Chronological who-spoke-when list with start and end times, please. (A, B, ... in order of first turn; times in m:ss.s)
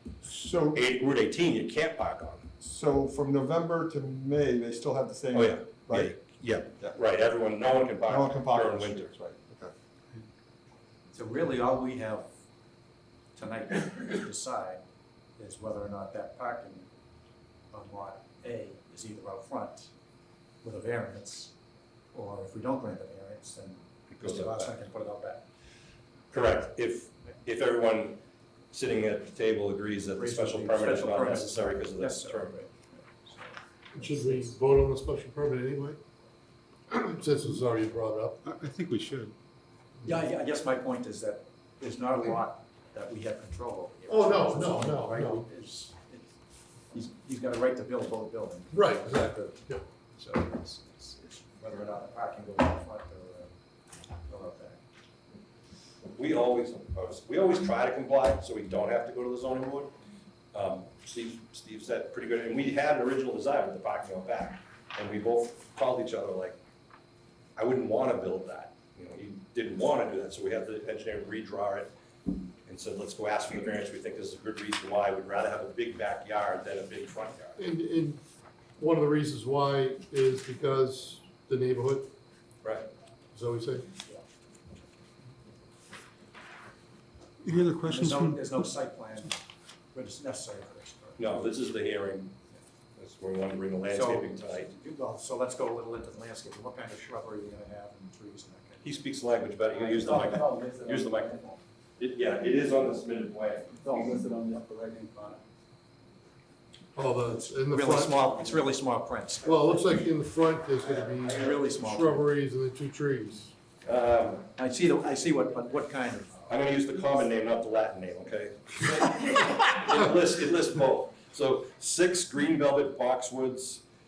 0:00.2-0:00.8 A
0:00.7-0:02.5 B
0:02.6-0:06.2 A
0:05.3-0:09.1 B
0:08.0-0:09.7 A
0:11.1-0:12.3 C
0:13.4-0:14.8 C
0:15.4-0:16.9 C
0:17.7-0:19.9 C
0:20.6-0:21.6 C
0:22.1-0:25.4 C
0:24.1-0:24.8 B
0:26.3-0:28.2 B
0:28.7-0:32.6 B
0:30.2-0:34.6 C
0:33.9-0:36.0 D
0:36.9-0:38.4 D
0:38.4-0:39.3 E
0:40.0-0:46.3 C
0:44.1-0:45.5 D
0:46.9-0:49.6 C
0:48.7-0:49.8 D
0:50.2-0:53.5 C
0:54.2-0:54.8 C
0:56.1-0:59.9 B
1:00.5-1:06.6 B
1:07.6-1:11.9 B
1:12.6-1:17.6 B
1:17.6-1:18.2 D
1:18.8-1:22.1 D
1:22.6-1:22.9 B
1:23.3-1:23.9 D
1:27.4-1:28.7 E
1:27.8-1:31.2 C
1:31.2-1:32.4 B
1:33.0-1:34.7 B
1:33.9-1:38.8 C
1:38.8-1:41.5 B
1:39.8-1:41.6 F
1:42.0-1:44.2 B
1:43.8-1:45.4 F
1:47.0-1:48.3 D
1:47.6-1:50.0 C
1:49.4-1:53.6 D
1:50.8-1:52.2 C
1:53.8-1:54.5 B
1:54.6-1:56.5 C
1:56.5-2:03.8 B